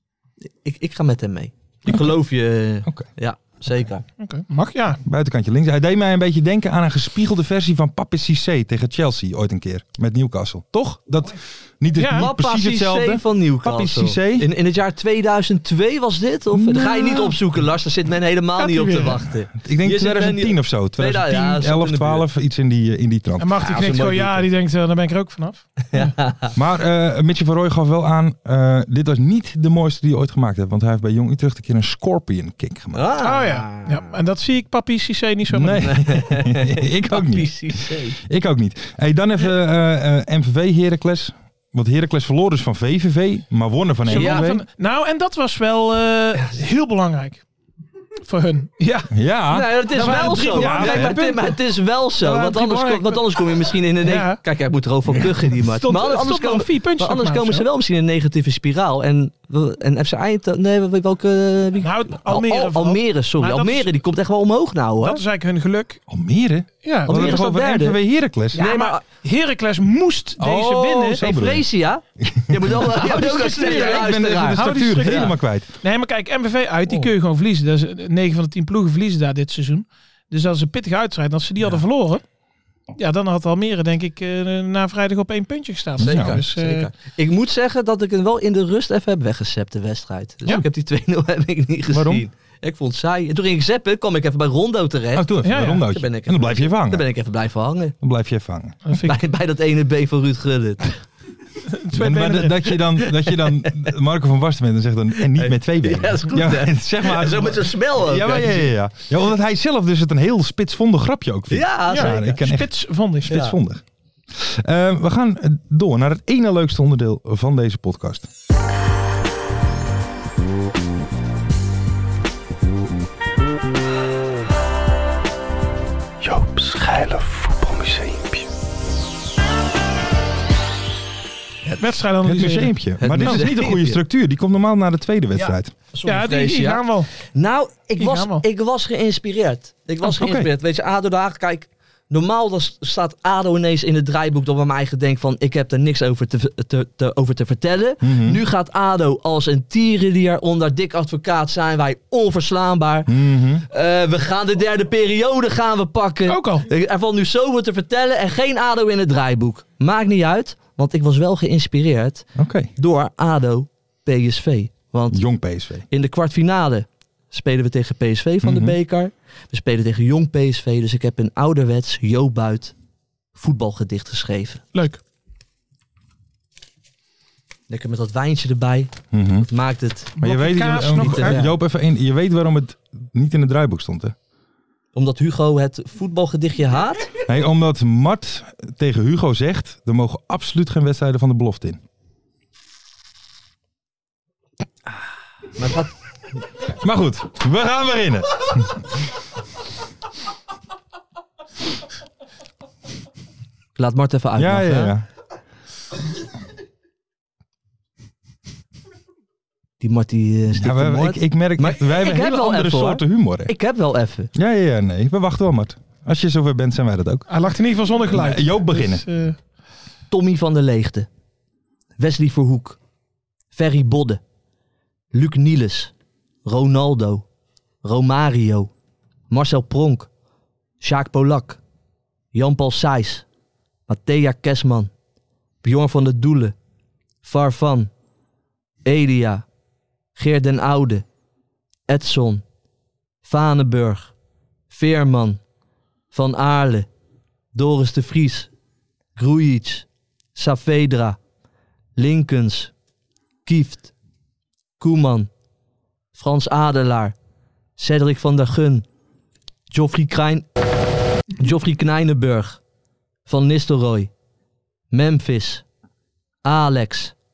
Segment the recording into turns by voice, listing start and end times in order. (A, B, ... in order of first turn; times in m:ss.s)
0:00.4-0:04.0 A
0:04.2-0:05.0 B
0:05.0-0:14.4 C
0:12.0-0:12.3 B
0:12.1-0:22.3 A
0:16.5-0:17.4 C
0:18.6-0:19.2 B
0:19.6-0:23.6 C
0:23.4-0:26.1 B
0:23.6-0:24.4 A
0:25.9-0:26.5 A
0:26.5-0:33.0 C
0:32.9-0:34.1 A
0:33.2-0:35.9 B
0:35.5-0:44.6 C
0:35.8-0:38.2 A
0:44.1-0:47.4 B
0:44.1-0:44.6 A
0:48.2-0:49.1 B
0:49.1-0:49.7 C
0:49.5-1:05.2 A
0:49.9-0:51.6 B
0:50.5-0:51.2 C
0:52.2-0:53.4 B
0:54.0-0:54.4 B
0:55.4-0:57.6 B
1:01.8-1:03.9 B
1:05.0-1:06.0 B
1:06.1-1:08.7 C
1:06.8-1:07.3 B
1:07.0-1:08.0 A
1:08.5-1:09.0 A
1:08.5-1:11.2 B
1:10.4-1:11.6 C
1:11.1-1:15.3 A
1:12.2-1:15.7 C
1:13.0-1:22.2 B
1:23.0-1:26.9 B
1:26.0-1:26.4 C
1:26.0-1:37.9 A
1:31.9-1:32.2 C
1:35.1-1:37.0 C
1:35.4-1:35.8 B
1:38.0-1:38.8 C
1:38.8-1:39.2 B
1:39.0-1:41.0 A
1:41.7-1:42.8 B
1:41.9-1:52.7 C
1:45.2-1:48.7 A
1:51.5-1:52.4 A
1:51.9-1:53.4 B
1:53.2-1:53.8 C
1:53.3-1:53.5 A
1:54.3-1:58.3 C
2:06.2-2:08.1 A
2:07.7-2:08.2 C
2:11.8-2:13.4 B
2:12.2-2:15.7 C
2:13.0-2:14.0 A
2:15.3-2:45.2 A
2:16.0-2:17.1 B
2:18.0-2:18.4 B
2:20.0-2:20.5 C
2:28.0-2:28.4 C
2:33.1-2:33.6 C
2:36.3-2:36.7 B
2:42.4-2:42.7 C
2:45.1-2:45.9 C
2:45.9-2:52.7 A
2:48.4-2:48.8 C
2:53.3-2:54.6 A
2:54.7-2:55.0 B
2:57.7-2:58.9 A
2:59.1-2:59.5 C
2:59.5-3:00.2 A
3:00.2-3:04.1 C
3:00.2-3:01.4 B
3:00.9-3:01.5 A
3:04.9-3:07.1 A
3:07.2-3:11.8 C
3:15.6-3:15.9 A
3:16.7-3:18.8 C
3:23.8-3:24.9 A
3:24.4-3:25.0 C
3:29.8-3:34.3 A
3:30.5-3:33.5 C
3:34.3-3:37.2 C
3:37.3-3:39.4 B
3:38.1-3:39.0 C
3:40.1-3:41.1 A
3:42.0-3:42.8 A
3:43.5-3:44.2 A
3:45.1-3:45.9 A
3:46.4-3:47.2 A
3:47.8-3:48.7 A
3:49.3-3:50.1 A
3:50.8-3:51.6 A
3:52.3-3:53.2 A
3:53.9-3:54.9 A
3:55.6-3:56.6 A
3:57.2-3:57.9 A
3:58.8-3:59.4 A
4:00.1-4:01.0 A
4:01.9-4:02.4 A
4:03.2-4:04.1 A
4:04.7-4:05.4 A
4:06.1-4:06.9 A
4:07.5-4:08.5 A
4:09.2-4:11.2 A
4:12.0-4:12.7 A
4:13.4-4:13.9 A
4:14.8-4:15.3 A
4:16.1-4:17.1 A
4:17.8-4:18.8 A
4:19.7-4:20.5 A
4:21.4-4:22.6 A
4:23.2-4:24.1 A
4:24.9-4:25.6 A
4:26.4-4:27.1 A